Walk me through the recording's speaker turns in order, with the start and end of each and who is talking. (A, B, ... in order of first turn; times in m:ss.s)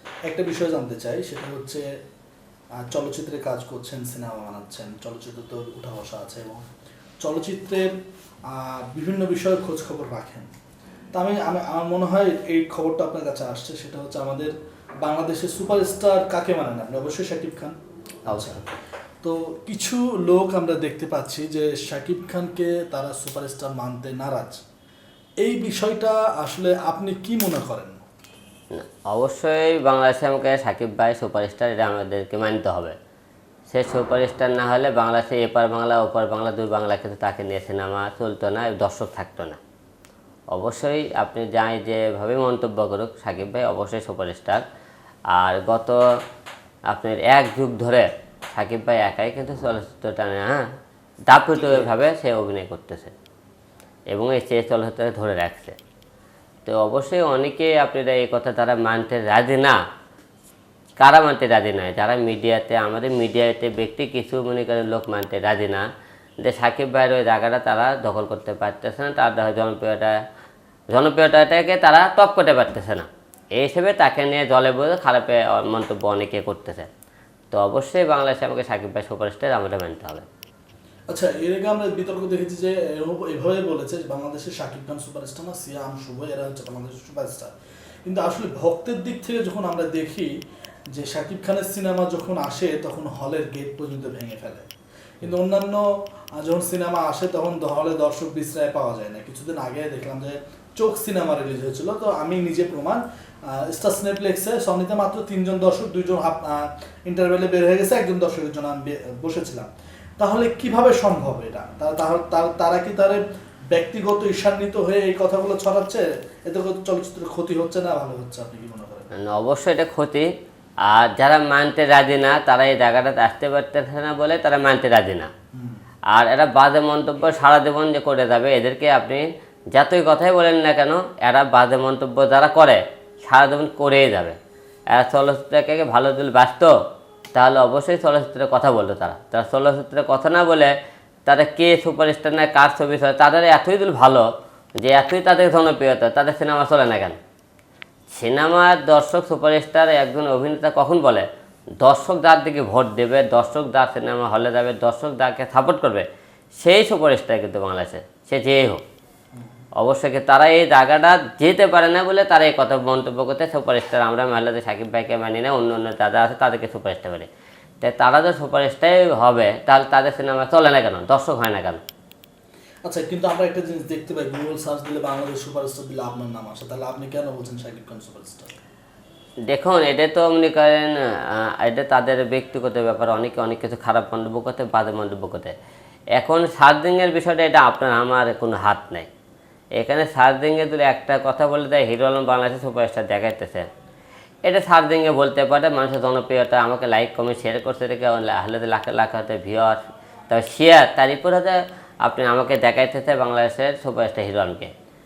0:00.3-0:01.8 A
0:02.8-0:06.6 A
0:07.2-0:07.9 A
0:08.5-0:10.5 A
0:11.2-0:17.8 A
0:18.3-0:18.6 A
0:18.3-0:18.6 B
0:19.2-0:24.6 A
0:25.4-0:28.0 A
0:28.7-0:33.0 B
0:33.7-0:39.6 B
0:40.5-0:44.6 B
0:45.3-0:46.0 B
0:46.9-0:50.7 B
0:51.3-0:53.1 B
0:51.6-0:51.9 A
0:54.1-0:55.8 B
0:56.6-0:59.8 B
1:01.0-1:05.8 B
1:06.4-1:10.2 B
1:10.9-1:16.9 B
1:17.5-1:20.2 B
1:21.1-1:27.5 A
1:28.1-1:30.3 A
1:30.9-1:34.6 A
1:35.2-1:35.8 A
1:36.4-1:43.0 A
1:43.5-1:53.2 A
1:53.7-1:59.1 A
1:59.2-2:00.3 B
2:00.9-2:05.3 B
2:06.1-2:14.4 B
2:14.9-2:16.7 B
2:17.4-2:20.7 B
2:21.3-2:24.2 B
2:24.8-2:27.2 B
2:28.1-2:31.3 B
2:31.8-2:36.1 B
2:36.6-2:38.8 B
2:39.8-2:47.3 B
2:47.8-2:51.8 B
2:52.9-2:58.5 A
2:59.5-3:05.5 B
3:06.2-3:09.1 B
3:09.8-3:13.7 B
3:14.5-3:24.7 B